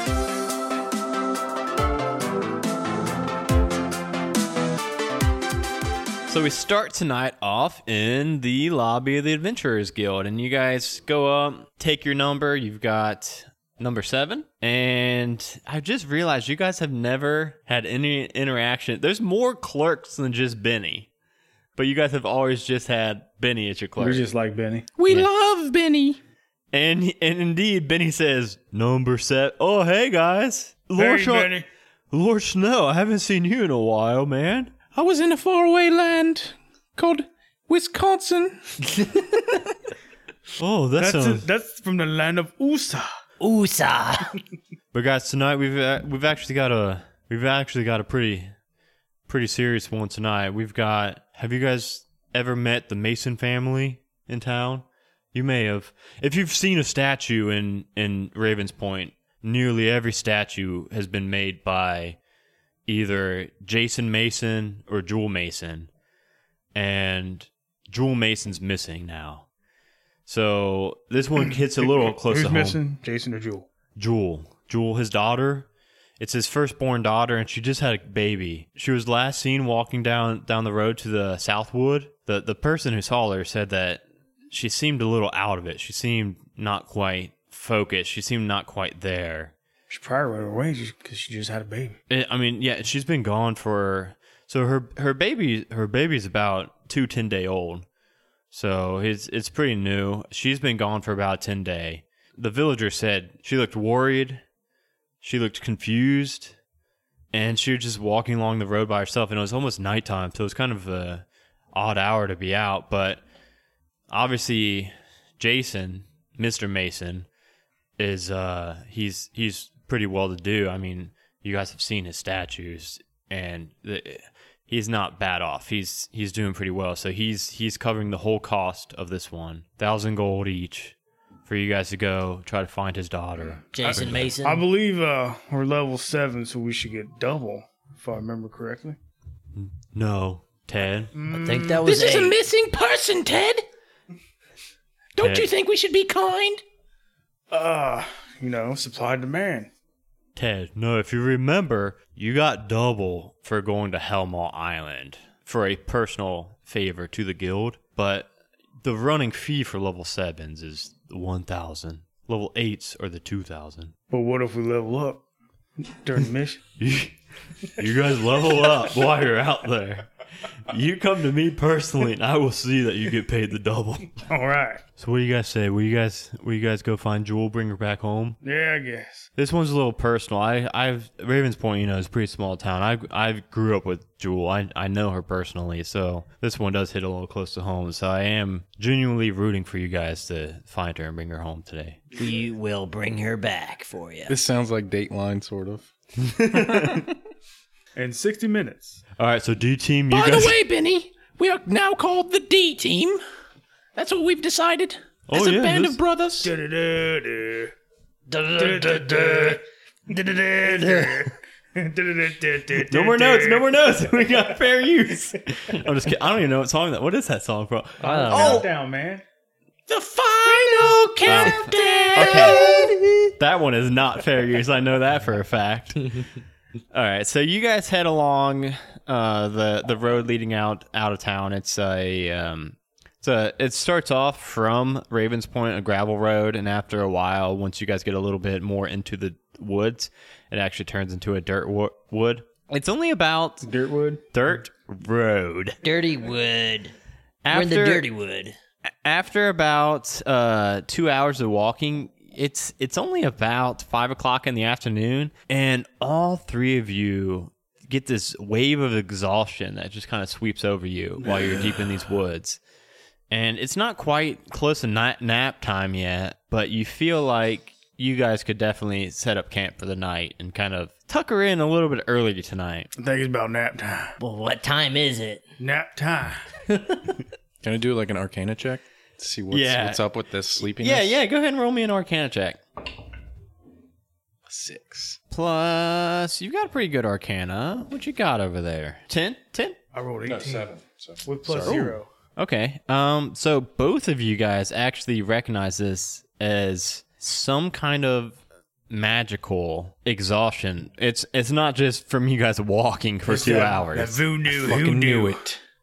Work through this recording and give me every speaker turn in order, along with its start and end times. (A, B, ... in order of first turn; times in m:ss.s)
0:06.3-0:21.1 A
0:21.8-0:24.2 A
0:24.0-0:24.9 B
0:24.9-0:26.2 C
0:26.7-0:31.5 A
0:31.0-0:31.6 B
0:32.1-0:34.8 A
0:34.9-0:38.8 C
0:39.0-0:39.2 D
0:40.6-0:41.4 A
0:41.0-0:43.1 B
0:43.4-0:44.4 D
0:44.9-0:48.5 A
0:49.3-1:02.2 A
1:02.9-1:05.9 A
1:06.7-1:09.5 A
1:10.3-1:12.8 A
1:12.2-1:13.7 B
1:14.0-1:15.7 A
1:16.2-1:29.5 A
1:29.9-1:32.0 B
1:32.1-1:37.8 A
1:38.5-1:44.4 A
1:45.2-1:46.6 A
1:47.3-1:53.2 A
1:54.1-1:57.3 A
1:58.0-2:11.0 A
2:11.5-2:14.3 A
2:13.7-2:14.6 D
2:14.4-2:19.0 B
2:19.6-2:21.1 A
2:21.1-2:21.8 B
2:21.3-2:22.4 D
2:21.8-2:23.6 C
2:25.2-2:26.6 C
2:25.2-2:25.5 A
2:27.5-2:29.7 B
2:30.4-2:38.3 A
2:38.8-2:43.9 A
2:44.1-2:45.2 B
2:45.8-2:46.6 B
2:46.8-2:47.1 A
2:47.6-2:50.1 A
2:50.7-2:54.2 A
2:54.3-2:54.8 B
2:55.0-2:58.4 A
2:58.4-2:59.3 B
2:59.4-3:12.0 A
3:12.2-3:14.3 D
3:14.3-3:15.9 E
3:16.2-3:17.1 A
3:16.5-3:17.0 E
3:18.0-3:19.0 B
3:19.2-3:20.6 A
3:20.1-3:23.2 C
3:24.0-3:26.5 C
3:25.3-3:26.0 A
3:26.4-3:27.7 B
3:28.3-3:29.5 D
3:28.5-3:33.7 B
3:30.8-3:31.2 A
3:32.9-3:38.7 A
3:38.0-3:38.6 D
3:38.0-3:39.2 B
3:39.9-3:42.9 C
3:40.4-3:40.8 D
3:41.2-3:46.2 A
3:42.0-3:43.3 D
3:46.9-4:03.7 A
4:03.6-4:04.2 B
4:04.3-4:05.8 A
4:05.8-4:06.9 D
4:07.4-4:08.0 A
4:07.5-4:08.6 D
4:09.0-4:22.6 A
4:23.3-4:32.9 A
4:33.0-4:34.2 B
4:34.2-4:35.4 D
4:35.6-4:36.4 B
4:36.7-4:37.0 D
4:37.6-4:41.2 E
4:39.5-4:40.0 A
4:40.8-4:42.6 A
4:44.4-4:45.2 E
4:45.3-4:49.8 A
4:49.9-4:50.7 B
4:50.2-4:51.8 E
4:51.2-4:52.1 B
4:51.6-4:58.4 A
4:58.9-5:04.2 A
5:03.3-5:05.4 B
5:04.5-5:05.6 E